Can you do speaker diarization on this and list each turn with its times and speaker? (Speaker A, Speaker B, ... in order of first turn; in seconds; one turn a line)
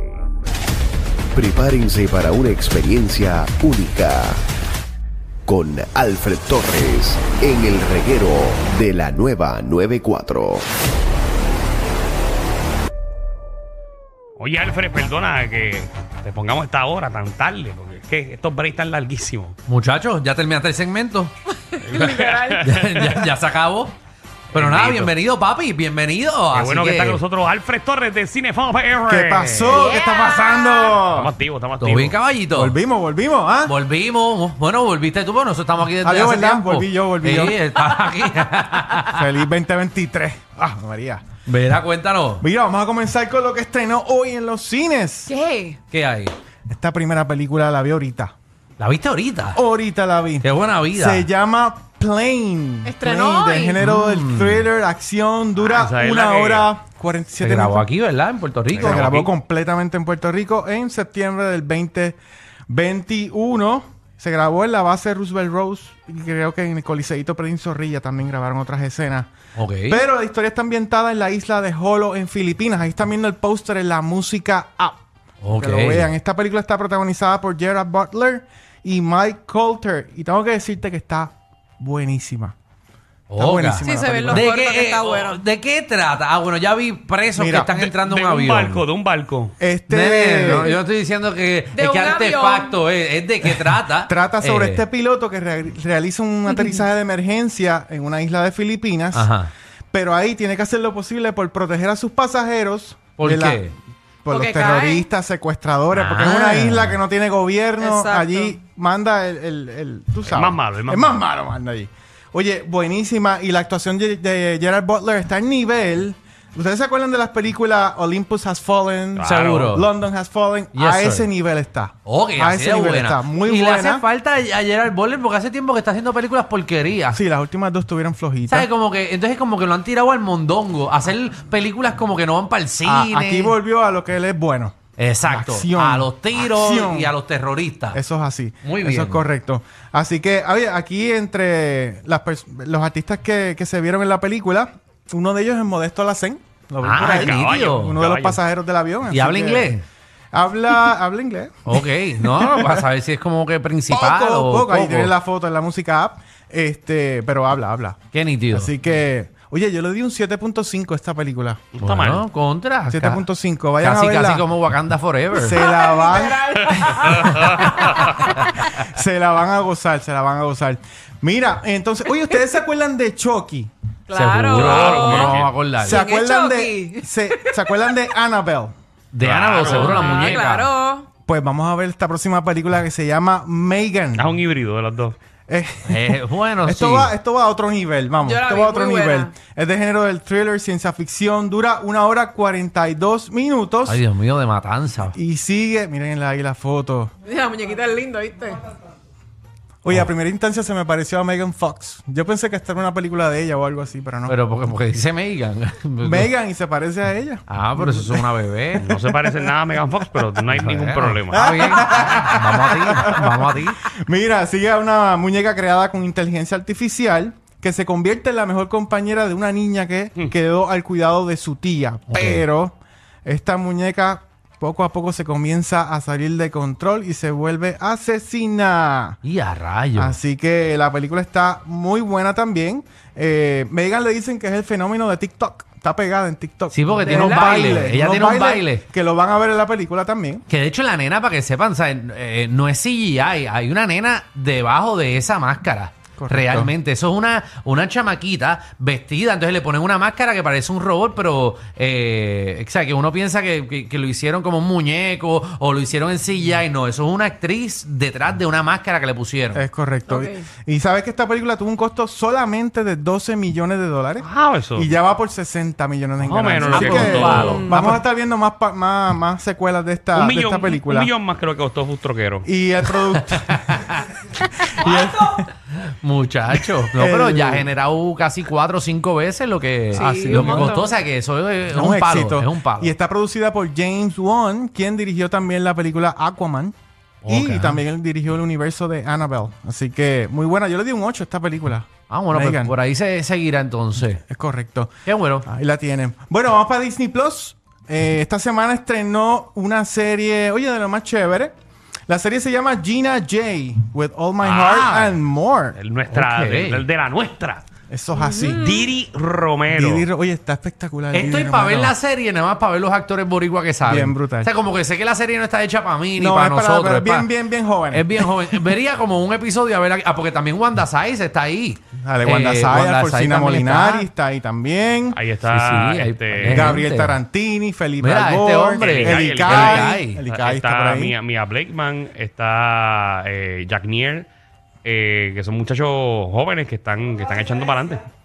Speaker A: 1.3-4.4
Speaker A: 5.5-10.7
Speaker B: 14.4-19.6
Speaker C: 19.7-21.3
Speaker D: 21.7-22.6
Speaker B: 21.8-23.3
Speaker C: 22.5-23.9
Speaker C: 24.5-27.2
Speaker B: 24.5-25.2
Speaker B: 26.5-29.9
Speaker E: 29.1-31.3
Speaker D: 29.7-30.9
Speaker B: 31.0-32.2
Speaker C: 31.8-32.8
Speaker E: 32.5-33.7
Speaker C: 33.6-39.3
Speaker E: 36.0-37.6
Speaker E: 39.0-41.2
Speaker C: 41.5-42.5
Speaker E: 42.4-45.3
Speaker D: 45.3-45.8
Speaker C: 45.9-46.3
Speaker E: 46.7-48.3
Speaker C: 48.8-49.6
Speaker E: 49.5-57.9
Speaker C: 50.4-51.3
Speaker D: 52.9-53.8
Speaker C: 53.8-54.7
Speaker B: 55.6-56.7
Speaker C: 57.4-59.0
Speaker B: 58.7-59.3
Speaker E: 58.7-62.2
Speaker E: 62.7-69.3
Speaker C: 69.6-70.0
Speaker E: 69.9-75.0
Speaker C: 75.4-76.1
Speaker E: 75.5-82.5
Speaker C: 83.3-88.9
Speaker E: 83.4-84.5
Speaker D: 83.8-85.4
Speaker E: 87.4-87.7
Speaker B: 87.7-89.5
Speaker E: 89.6-90.8
Speaker C: 89.9-94.8
Speaker D: 91.7-92.9
Speaker E: 94.0-99.3
Speaker D: 96.5-96.8
Speaker C: 99.1-99.5
Speaker E: 99.9-103.6
Speaker C: 103.2-103.7
Speaker E: 104.2-124.0
Speaker D: 104.3-105.1
Speaker C: 105.9-107.0
Speaker D: 107.8-108.5
Speaker B: 110.3-111.2
Speaker B: 119.2-119.8
Speaker C: 119.2-119.9
Speaker C: 120.8-121.3
Speaker C: 122.0-127.2
Speaker E: 127.1-128.7
Speaker C: 128.5-133.6
Speaker E: 132.8-137.1
Speaker C: 135.0-138.0
Speaker E: 137.9-149.8
Speaker C: 138.6-139.2
Speaker C: 146.8-148.0
Speaker B: 147.0-148.4
Speaker C: 149.1-149.8
Speaker E: 150.3-152.8
Speaker C: 151.7-155.1
Speaker E: 153.9-158.0
Speaker C: 158.1-158.7
Speaker E: 158.5-161.6
Speaker B: 161.8-162.2
Speaker C: 161.8-163.2
Speaker E: 162.9-164.5
Speaker C: 163.8-165.7
Speaker E: 165.3-173.7
Speaker D: 165.5-168.2
Speaker B: 167.2-168.1
Speaker C: 168.4-168.9
Speaker D: 174.1-177.9
Speaker C: 174.1-176.1
Speaker B: 174.5-175.6
Speaker E: 175.8-178.7
Speaker C: 179.1-180.7
Speaker B: 179.2-180.5
Speaker D: 179.7-181.1
Speaker E: 181.3-184.4
Speaker B: 184.2-185.2
Speaker E: 185.5-194.0
Speaker C: 185.9-187.2
Speaker D: 188.2-189.3
Speaker C: 193.9-195.2
Speaker E: 195.1-197.1
Speaker D: 197.2-198.7
Speaker E: 199.8-204.4
Speaker C: 204.3-206.3
Speaker E: 206.0-208.3
Speaker C: 207.5-208.9
Speaker B: 208.8-211.9
Speaker C: 210.5-213.8
Speaker E: 211.3-229.2
Speaker C: 222.1-222.4
Speaker C: 229.2-230.2
Speaker E: 230.0-240.4
Speaker C: 236.7-238.9
Speaker D: 237.0-237.9
Speaker C: 240.5-259.6
Speaker E: 246.2-246.7
Speaker E: 259.6-271.1
Speaker D: 260.1-260.4
Speaker B: 264.2-264.9
Speaker B: 266.2-267.9
Speaker C: 266.7-267.8
Speaker D: 267.4-268.0
Speaker B: 270.1-272.5
Speaker E: 272.5-273.9
Speaker C: 273.3-274.9
Speaker E: 274.7-275.5
Speaker C: 275.8-282.9
Speaker E: 276.9-277.7
Speaker E: 279.9-280.8
Speaker D: 279.9-280.9
Speaker E: 281.7-286.8
Speaker C: 287.2-287.8
Speaker E: 287.3-292.8
Speaker C: 292.1-294.2
Speaker E: 294.3-294.9
Speaker C: 295.1-295.5
Speaker E: 295.5-301.5
Speaker E: 302.1-305.8
Speaker B: 304.4-304.9
Speaker C: 304.8-305.2
Speaker B: 305.8-307.7
Speaker C: 306.1-306.9
Speaker E: 307.9-308.8
Speaker D: 308.2-308.8
Speaker B: 308.5-310.1
Speaker E: 309.7-312.0
Speaker C: 311.1-317.3
Speaker E: 313.8-314.5
Speaker E: 316.2-318.7
Speaker C: 317.9-324.1
Speaker E: 322.0-325.2
Speaker B: 325.1-326.9
Speaker C: 325.5-327.2
Speaker E: 326.5-331.2
Speaker C: 328.0-330.2
Speaker B: 328.8-334.3
Speaker B: 334.9-338.0